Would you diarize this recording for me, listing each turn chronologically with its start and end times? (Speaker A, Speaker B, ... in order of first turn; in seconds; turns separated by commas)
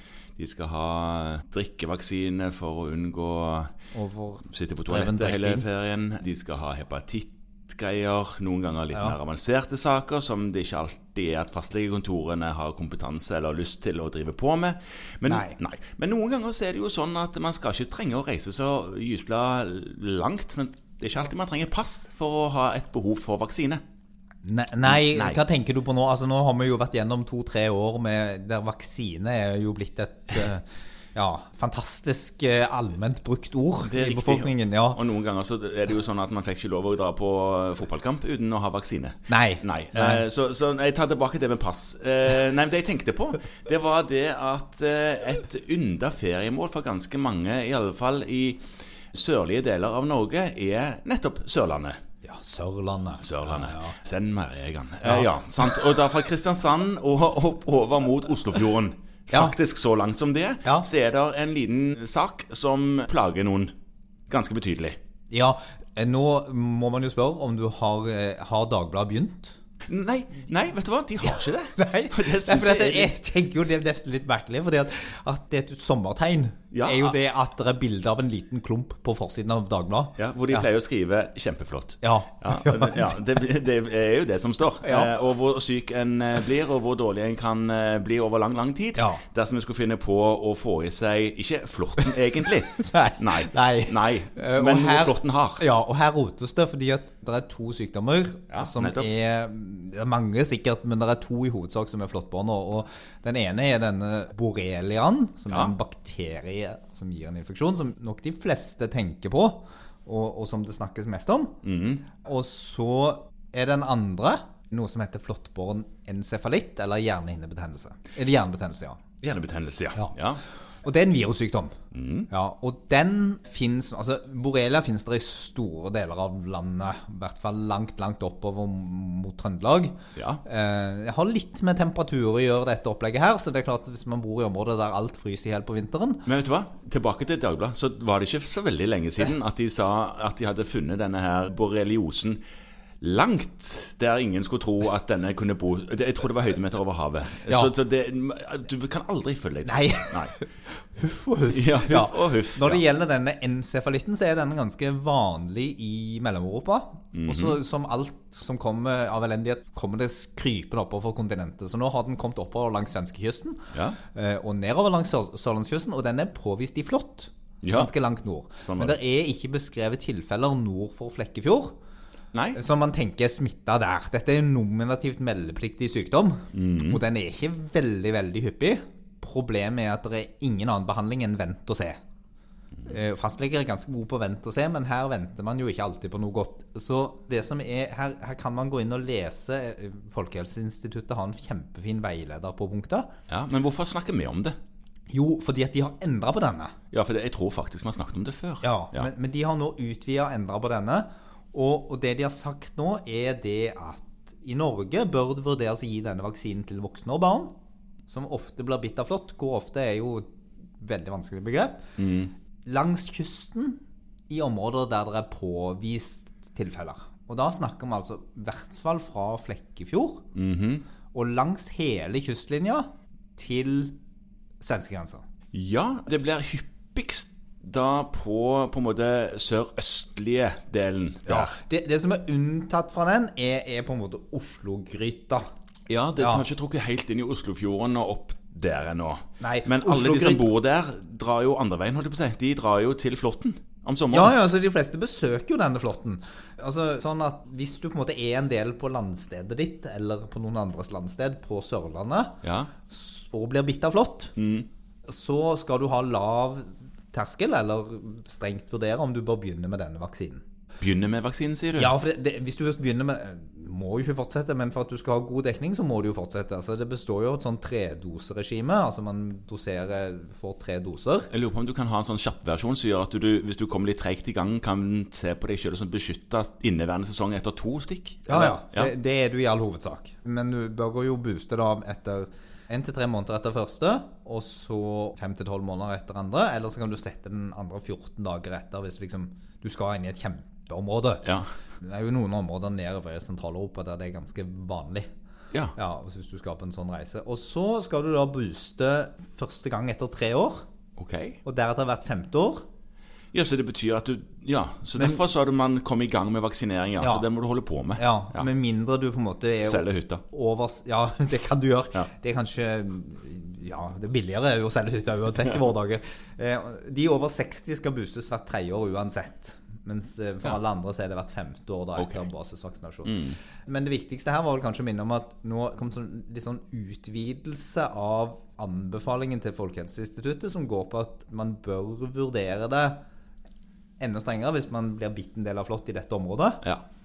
Speaker A: 0.4-3.7, Speaker B: 3.9-5.7, Speaker A: 4.5-23.8, Speaker B: 15.3-15.6, Speaker B: 24.4-35.0, Speaker A: 24.9-25.4, Speaker A: 33.8-52.0, Speaker B: 39.3-40.2, Speaker B: 52.2-54.0, Speaker A: 53.2-63.7, Speaker B: 55.0-55.7, Speaker A: 64.3-65.0, Speaker B: 65.3-69.6, Speaker A: 69.9-73.1, Speaker B: 71.8-80.7, Speaker A: 76.7-77.1, Speaker A: 80.2-95.6, Speaker B: 82.0-83.2, Speaker B: 84.8-85.1, Speaker B: 89.0-89.2, Speaker B: 92.8-111.5, Speaker A: 98.5-99.1, Speaker A: 111.6-112.0, Speaker B: 112.2-119.0, Speaker A: 119.2-120.4, Speaker B: 120.8-121.8, Speaker A: 121.9-122.3, Speaker B: 122.3-136.2, Speaker A: 130.2-130.4, Speaker A: 136.2-142.4, Speaker A: 143.0-150.3, Speaker B: 147.5-147.7, Speaker B: 149.7-171.8, Speaker A: 151.5-152.8, Speaker A: 157.1-157.6, Speaker A: 163.7-164.0, Speaker A: 167.6-167.9, Speaker A: 168.6-169.0, Speaker A: 172.3-172.6, Speaker B: 172.5-182.0, Speaker A: 176.5-177.0, Speaker B: 182.8-193.1, Speaker A: 193.3-194.6, Speaker B: 195.1-196.7, Speaker A: 196.9-199.1, Speaker B: 198.6-207.5, Speaker B: 208.1-210.3, Speaker B: 210.8-211.8, Speaker A: 212.0-212.3, Speaker B: 212.7-220.2, Speaker A: 220.3-220.8, Speaker B: 221.1-223.9, Speaker B: 224.6-225.2, Speaker A: 225.5-231.5, Speaker B: 231.3-235.4, Speaker A: 235.9-244.3, Speaker B: 236.2-236.4, Speaker B: 239.4-240.4, Speaker B: 244.1-252.4, Speaker A: 252.4-252.7, Speaker B: 252.9-254.3, Speaker A: 254.3-254.7, Speaker B: 255.1-260.4, Speaker A: 260.8-261.9, Speaker B: 261.8-271.3, Speaker A: 271.3-278.9, Speaker B: 278.3-295.1, Speaker B: 295.7-300.6, Speaker A: 301.0-301.4, Speaker B: 301.4-302.6, Speaker A: 303.3-308.5, Speaker B: 307.0-307.2, Speaker B: 308.0-333.0, Speaker A: 309.6-310.2, Speaker A: 322.0-322.2, Speaker A: 323.0-323.4, Speaker B: 334.0-336.6